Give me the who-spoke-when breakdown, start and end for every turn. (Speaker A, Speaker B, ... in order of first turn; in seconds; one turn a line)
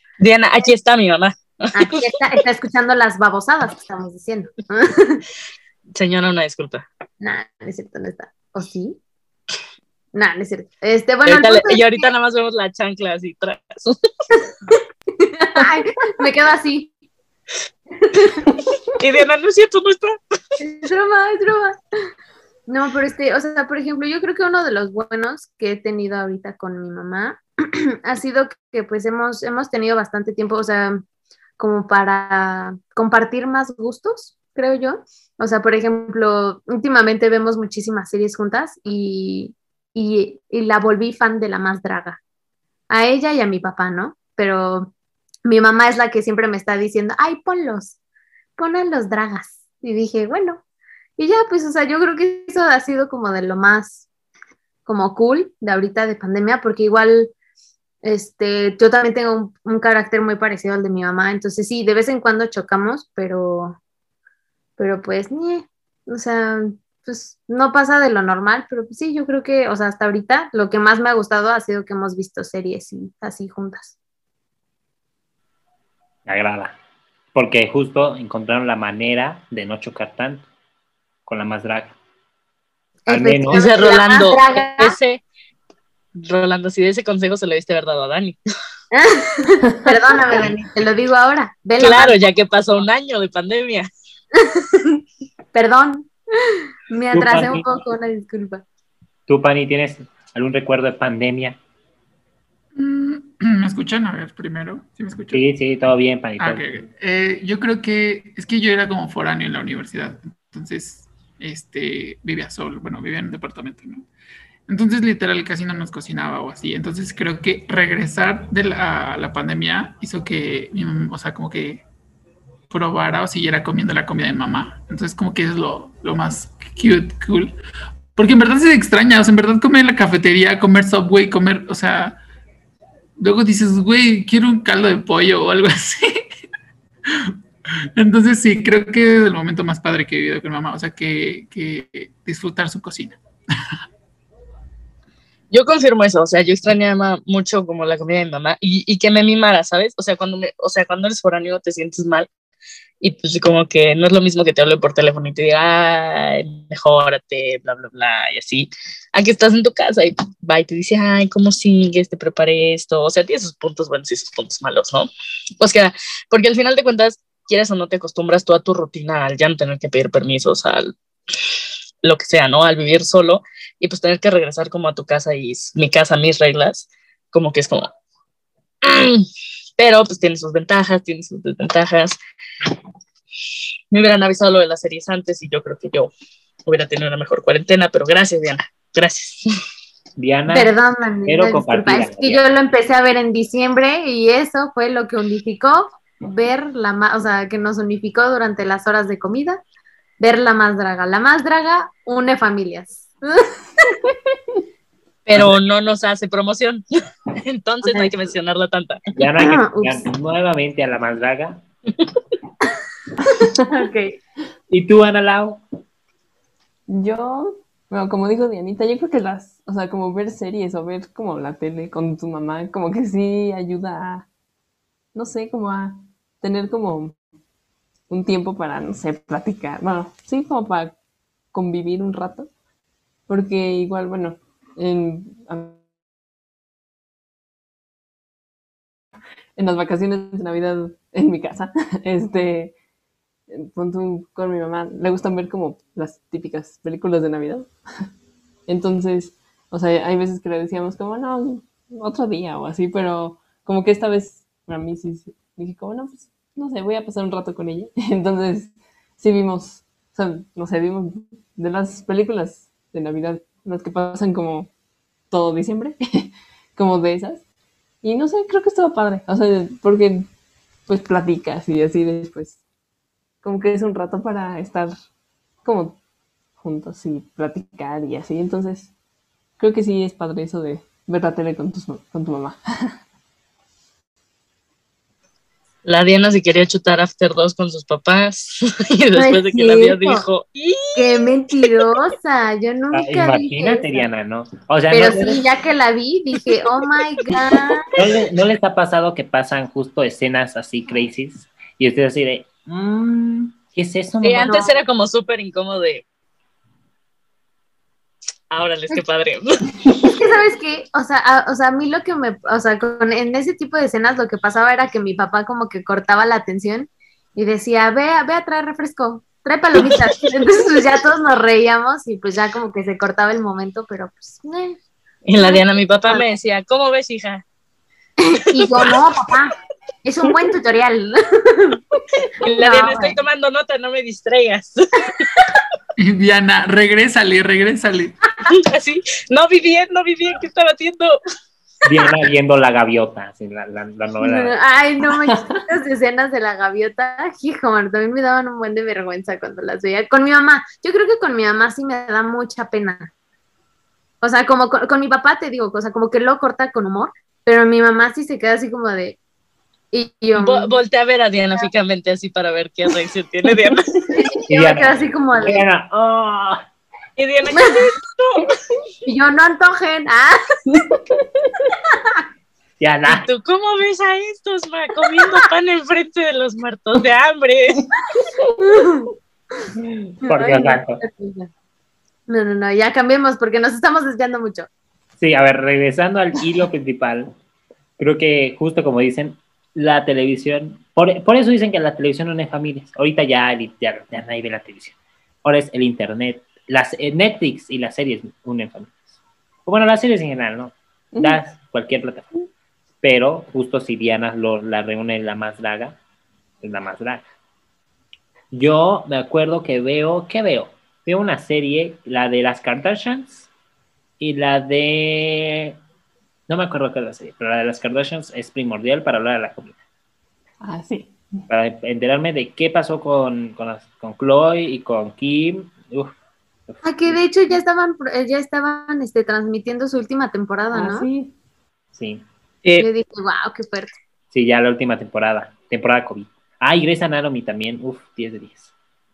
Speaker A: 0.2-2.1
Speaker B: 1.7-5.2
Speaker A: 5.9-6.8
Speaker B: 7.2-9.0
Speaker B: 10.1-12.0
Speaker A: 11.2-14.0
Speaker B: 15.3-16.9
Speaker B: 18.1-18.5
Speaker A: 19.0-20.1
Speaker B: 20.6-21.8
Speaker B: 22.7-27.4
Speaker B: 27.9-31.0
Speaker B: 31.6-42.2
Speaker B: 42.9-44.9
Speaker B: 45.4-48.0
Speaker B: 48.6-50.6
Speaker B: 51.2-54.0
Speaker B: 54.9-57.3
Speaker B: 58.0-63.8
Speaker B: 64.8-73.9
Speaker C: 76.2-76.7
Speaker C: 77.3-80.5
Speaker C: 81.2-82.0
Speaker B: 83.0-85.0
Speaker C: 83.1-83.6
Speaker A: 83.5-85.2
Speaker A: 86.1-88.4
Speaker B: 88.9-92.2
Speaker A: 91.8-93.9
Speaker B: 94.4-94.8
Speaker B: 95.5-96.1
Speaker B: 96.9-98.6
Speaker C: 97.1-97.8
Speaker C: 99.3-101.6
Speaker D: 102.7-105.4
Speaker C: 105.3-106.6
Speaker D: 106.4-114.0
Speaker D: 114.7-121.8
Speaker D: 122.7-127.5
Speaker D: 128.2-132.2
Speaker D: 133.2-136.3
Speaker D: 137.9-143.2
Speaker A: 145.5-152.3
Speaker A: 153.0-165.1
Speaker A: 165.6-170.9
Speaker A: 172.0-177.9
Speaker A: 178.8-179.2
Speaker A: 179.8-182.2
Speaker A: 183.9-186.1
Speaker A: 186.7-189.5
Speaker C: 190.2-190.7
Speaker B: 190.5-199.6
Speaker C: 191.3-192.4
Speaker B: 200.2-203.5
Speaker A: 205.2-206.8
Speaker A: 207.4-209.0
Speaker C: 209.1-211.6
Speaker B: 209.4-210.1
Speaker B: 213.7-214.2
Speaker C: 214.7-215.6
Speaker E: 216.9-224.3
Speaker E: 225.1-227.1
Speaker E: 228.1-231.0
Speaker E: 231.5-232.5
Speaker E: 233.3-235.8
Speaker E: 239.6-242.7
Speaker E: 243.5-247.7
Speaker E: 248.7-264.7
Speaker E: 265.3-267.4
Speaker E: 268.0-270.3
Speaker E: 270.9-272.6
Speaker E: 273.4-274.9
Speaker E: 275.6-276.0
Speaker E: 276.6-278.9
Speaker E: 279.6-283.0
Speaker A: 285.8-291.2
Speaker B: 289.2-290.2
Speaker B: 290.9-294.1
Speaker C: 292.9-295.4
Speaker B: 294.9-297.8
Speaker C: 297.9-304.6
Speaker A: 304.2-306.0
Speaker A: 308.5-309.5
Speaker B: 310.1-324.8
Speaker A: 325.3-327.4
Speaker B: 325.4-326.2
Speaker B: 328.3-331.8
Speaker A: 328.6-329.0
Speaker A: 332.4-335.6
Speaker B: 332.5-333.2
Speaker D: 336.0-338.1
Speaker A: 338.5-341.2
Speaker C: 341.8-344.5
Speaker B: 344.2-353.1
Speaker E: 345.1-345.4
Speaker B: 354.2-359.2
Speaker B: 359.9-360.7
Speaker A: 360.4-363.8
Speaker B: 364.1-365.6
Speaker C: 364.5-366.6
Speaker A: 367.2-368.5
Speaker B: 367.5-367.8
Speaker B: 369.1-370.4
Speaker E: 370.7-371.5
Speaker C: 372.8-373.2
Speaker A: 373.1-377.8
Speaker B: 378.6-379.1
Speaker C: 379.8-381.0
Speaker B: 380.2-381.5
Speaker B: 382.3-384.7
Speaker C: 385.2-387.3
Speaker C: 388.0-399.1
Speaker C: 399.6-402.2
Speaker E: 401.1-401.4
Speaker C: 403.0-406.0
Speaker C: 406.6-407.2
Speaker C: 408.5-413.5
Speaker C: 414.2-415.8
Speaker C: 416.5-419.8
Speaker E: 420.6-421.1
Speaker C: 421.5-426.1
Speaker C: 426.7-427.2
Speaker B: 426.8-431.1
Speaker E: 430.7-431.3
Speaker C: 431.9-432.2
Speaker B: 432.8-433.9
Speaker C: 434.3-438.7